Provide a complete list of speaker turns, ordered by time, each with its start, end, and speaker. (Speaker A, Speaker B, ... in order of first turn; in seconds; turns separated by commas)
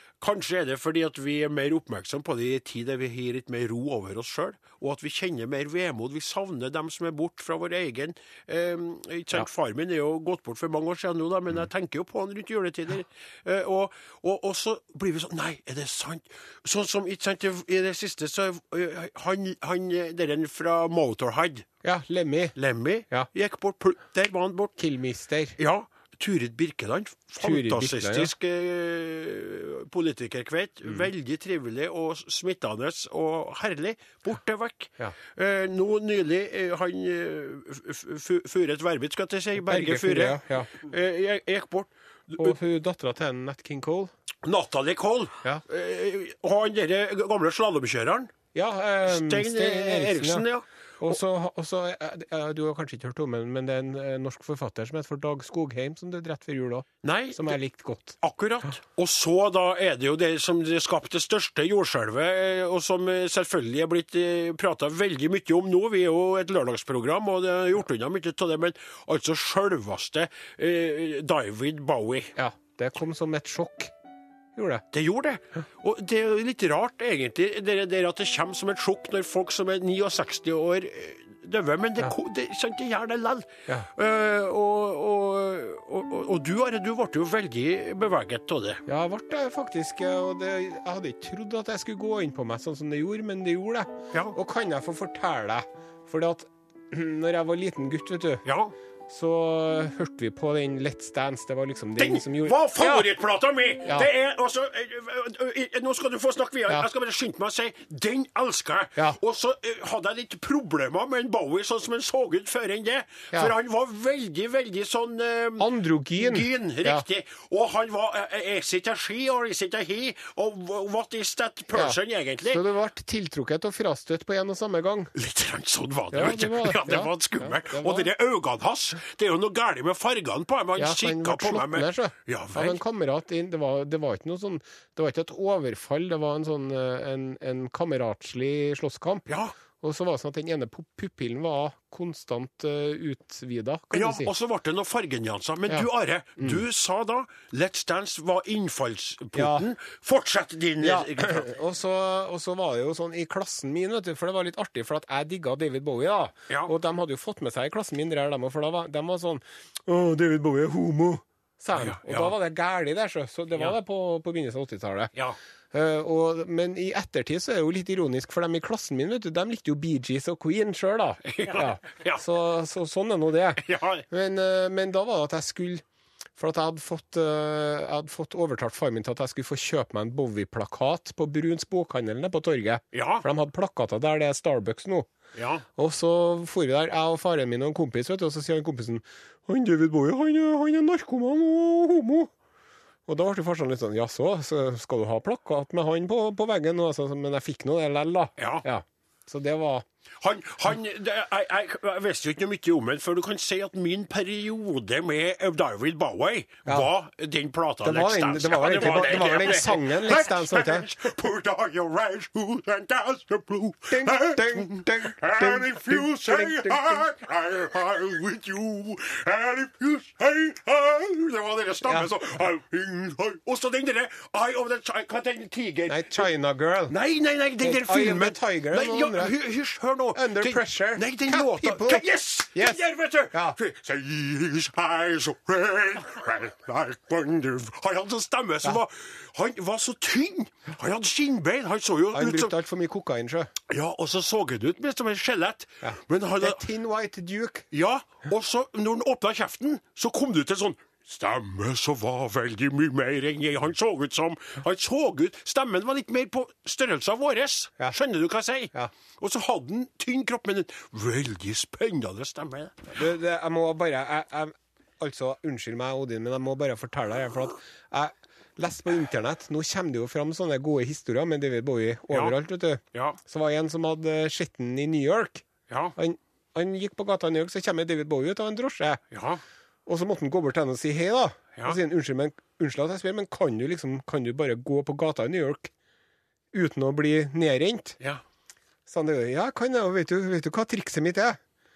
Speaker A: 0.2-21.7, Speaker B: 21.8-22.6, Speaker A: 22.6-24.7, Speaker B: 24.8-25.6, Speaker A: 25.6-42.6, Speaker B: 27.4-28.3, Speaker B: 39.6-40.7, Speaker B: 42.4-44.1, Speaker A: 44.4-48.3, Speaker B: 48.5-50.5, Speaker A: 49.0-51.1, Speaker B: 51.0-58.2, Speaker A: 57.0-57.5, Speaker A: 58.2-72.3, Speaker B: 72.3-73.9, Speaker B: 74.5-74.8, Speaker A: 74.9-88.8, Speaker B: 88.9-98.4, Speaker A: 98.4-98.7, Speaker B: 99.1-103.1, Speaker A: 102.0-122.6, Speaker B: 115.6-117.0, Speaker B: 121.7-125.1, Speaker A: 125.1-132.8, Speaker B: 126.1-128.1, Speaker B: 130.8-144.3, Speaker A: 139.3-139.5, Speaker A: 143.9-151.5, Speaker B: 149.3-149.7, Speaker B: 150.8-165.1, Speaker A: 161.7-162.3, Speaker B: 165.7-175.8, Speaker A: 171.2-172.2, Speaker A: 173.6-174.0, Speaker B: 176.4-185.1, Speaker A: 182.9-183.2, Speaker A: 185.3-185.6, Speaker B: 185.8-192.3, Speaker B: 193.1-199.8, Speaker A: 198.4-198.6, Speaker A: 200.2-226.3, Speaker B: 207.8-210.9, Speaker B: 213.9-217.0, Speaker B: 221.8-222.1, Speaker B: 225.9-226.9, Speaker A: 226.9-242.5, Speaker B: 227.6-229.3, Speaker B: 230.1-233.6, Speaker B: 242.1-243.5, Speaker A: 243.7-246.6, Speaker B: 245.8-247.7, Speaker A: 247.7-262.9, Speaker B: 262.9-275.4, Speaker A: 272.1-272.4, Speaker A: 272.9-273.2, Speaker A: 275.7-275.9, Speaker B: 275.9-279.0, Speaker A: 279.1-279.4, Speaker B: 279.9-285.7, Speaker B: 286.5-288.0, Speaker B: 288.9-291.4